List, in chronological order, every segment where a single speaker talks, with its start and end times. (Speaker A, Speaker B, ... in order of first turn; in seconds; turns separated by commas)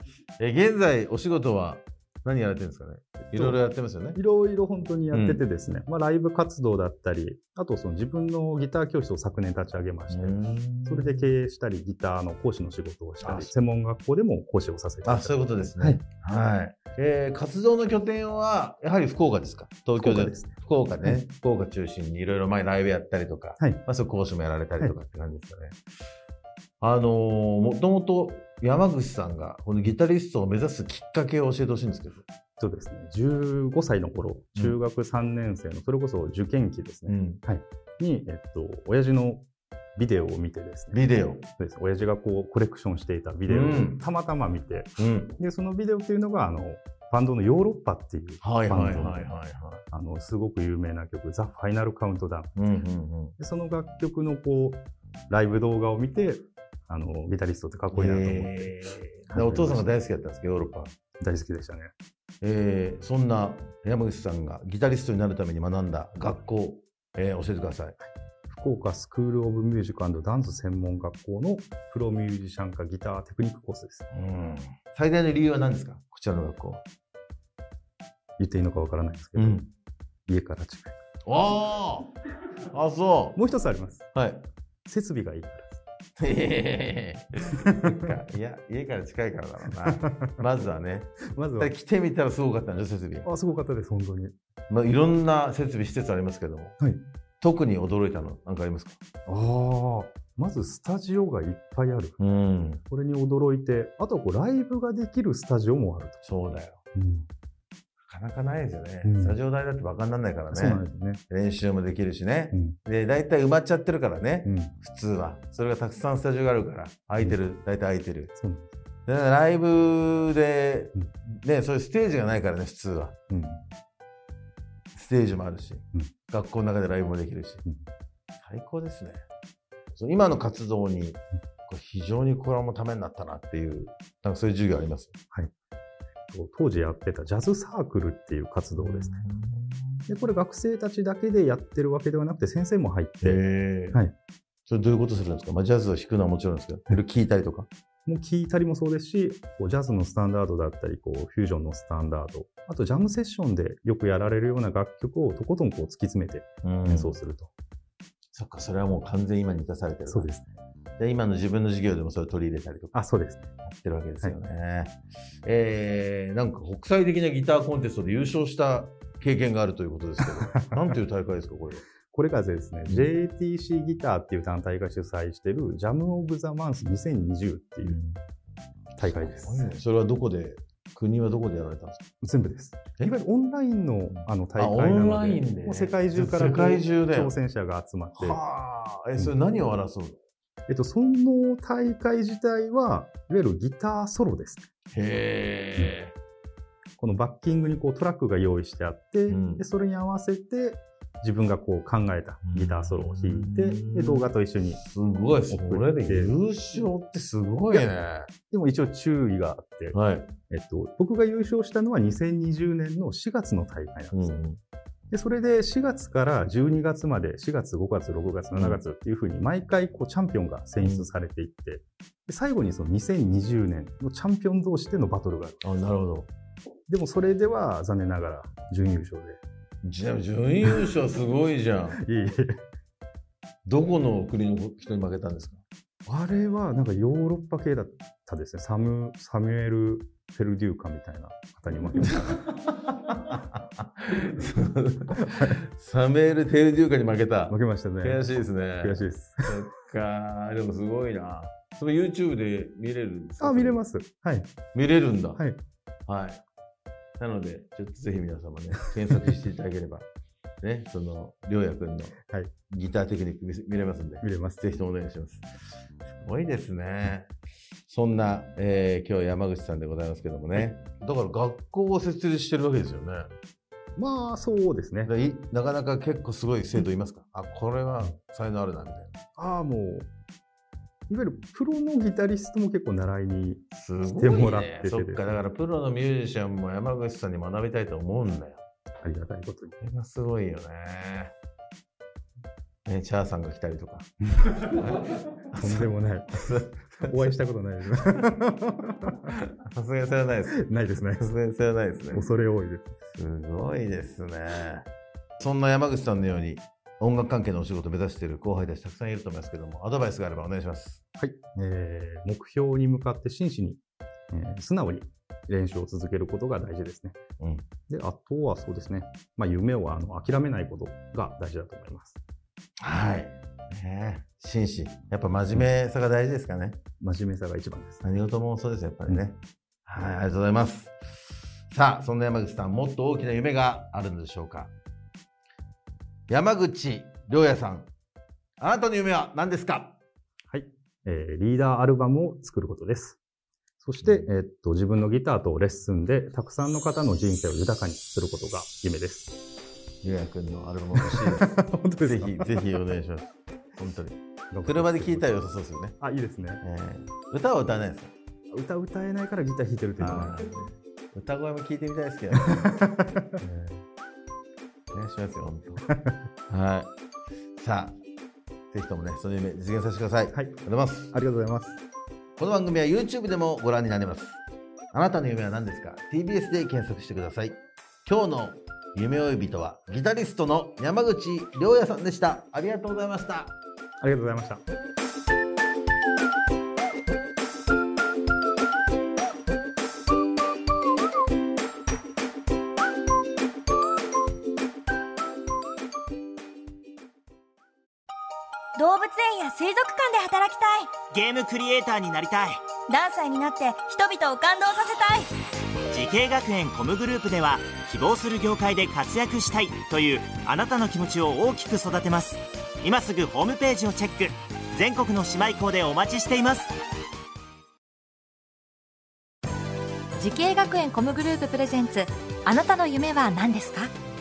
Speaker A: 0.4-4.2, Speaker B: 3.3-3.6, Speaker B: 4.1-16.0, Speaker A: 5.1-5.4, Speaker A: 10.1-11.3, Speaker A: 13.2-13.5, Speaker A: 15.0-25.8, Speaker B: 20.0-21.2, Speaker A: 26.8-32.2, Speaker B: 32.6-39.5, Speaker A: 37.1-37.4, Speaker B: 40.0-49.3, Speaker A: 40.9-41.4, Speaker A: 43.5-44.0, Speaker A: 45.0-45.3, Speaker A: 48.4-49.8, Speaker B: 49.9-52.5, Speaker A: 52.6-53.3, Speaker B: 53.4-59.9, Speaker A: 58.0-60.9, Speaker B: 61.2-61.9, Speaker A: 62.4-68.0, Speaker B: 68.0-74.1, Speaker A: 74.1-76.8, Speaker B: 78.4-79.7, Speaker A: 79.4-79.7, Speaker B: 80.3-81.0, Speaker A: 81.2-82.1, Speaker A: 82.7-83.4, Speaker B: 83.3-84.2, Speaker A: 84.1-84.5, Speaker B: 84.9-85.8, Speaker A: 86.2-93.3, Speaker B: 89.8-90.3, Speaker B: 91.3-91.7, Speaker B: 93.2-94.3, Speaker A: 94.7-96.8, Speaker A: 97.4-99.0, Speaker B: 99.3-102.2, Speaker A: 102.2-102.8, Speaker B: 102.8-106.2, Speaker A: 106.2-106.8, Speaker B: 106.9-107.3, Speaker A: 108.0-118.3, Speaker B: 109.0-109.4, Speaker B: 110.5-111.2, Speaker B: 112.5-112.8, Speaker B: 114.5-114.8, Speaker B: 118.3-118.7, Speaker A: 119.1-123.2, Speaker B: 123.3-123.6, Speaker A: 124.9-127.6, Speaker A: 128.4-129.2, Speaker A: 129.9-135.2, Speaker B: 136.3-139.2, Speaker A: 138.8-140.1, Speaker B: 140.1-143.4, Speaker A: 143.2-144.0, Speaker A: 144.7-147.7, Speaker B: 148.1-157.5, Speaker A: 156.6-157.2, Speaker A: 158.3-160.3, Speaker B: 160.1-160.5, Speaker A: 161.0-163.0, Speaker B: 162.9-163.5, Speaker A: 163.6-171.8, Speaker B: 170.4-170.8, Speaker B: 172.0-178.0, Speaker A: 177.8-178.2, Speaker B: 179.0-179.7, Speaker A: 179.0-182.1, Speaker B: 182.2-188.4, Speaker A: 184.1-187.3, Speaker A: 188.1-190.2, Speaker B: 190.7-194.7, Speaker A: 194.9-196.1, Speaker B: 197.0-204.8, Speaker A: 199.3-199.7, Speaker A: 202.5-204.3, Speaker A: 204.9-208.3, Speaker B: 205.5-206.3, Speaker B: 208.4-210.0, Speaker A: 209.9-210.3, Speaker B: 210.5-214.3, Speaker A: 214.1-214.6, Speaker B: 215.1-225.6, Speaker A: 218.5-218.8, Speaker A: 220.8-221.1, Speaker A: 225.6-226.3, Speaker B: 226.9-229.4, Speaker A: 229.8-232.0, Speaker B: 231.9-232.6, Speaker A: 233.7-235.6, Speaker B: 236.1-242.3, Speaker A: 242.0-253.8, Speaker B: 247.5-249.5, Speaker B: 253.4-254.5, Speaker A: 254.7-255.4, Speaker B: 255.3-255.6, Speaker A: 256.1-256.4, Speaker A: 257.2-260.1, Speaker A: 260.6-262.1, Speaker A: 262.7-265.4, Speaker B: 264.2-264.6, Speaker A: 266.1-267.3, Speaker A: 267.9-273.3, Speaker B: 274.0-275.1, Speaker A: 275.1-279.1, Speaker B: 279.4-280.1, Speaker B: 281.1-285.4, Speaker A: 283.7-288.6, Speaker B: 289.0-289.8, Speaker A: 289.8-291.3, Speaker A: 292.9-294.1, Speaker B: 294.3-294.8, Speaker A: 294.7-297.4, Speaker B: 295.6-299.3, Speaker A: 299.6-300.6, Speaker B: 300.5-301.3, Speaker A: 301.2-302.3, Speaker B: 302.1-303.0, Speaker A: 303.1-304.9, Speaker A: 305.4-311.0, Speaker B: 311.2-317.2, Speaker A: 317.4-317.7, Speaker B: 317.9-322.2, Speaker A: 322.8-326.8, Speaker B: 327.0-328.0, Speaker A: 328.0-331.0, Speaker A: 331.7-334.7, Speaker A: 336.3-337.9, Speaker A: 338.6-340.0, Speaker B: 340.5-343.2, Speaker B: 343.8-349.4, Speaker A: 350.0-351.5, Speaker B: 350.9-352.6, Speaker A: 352.1-356.0, Speaker B: 354.5-355.4, Speaker B: 356.0-356.6, Speaker A: 356.6-358.1, Speaker B: 358.5-360.4, Speaker A: 360.0-362.7, Speaker B: 362.3-363.2, Speaker A: 363.4-363.8, Speaker A: 364.9-365.8, Speaker B: 365.9-366.2, Speaker A: 366.5-366.9, Speaker A: 367.6-368.0, Speaker A: 368.7-371.1, Speaker B: 370.3-370.6, Speaker B: 371.1-371.8, Speaker A: 372.4-374.4, Speaker A: 374.9-383.6, Speaker B: 384.0-384.6, Speaker C: 398.8-401.0, Speaker D: 401.1-402.6, Speaker C: 402.9-405.3, Speaker D: 405.9-416.7, Speaker E: 420.2-423.9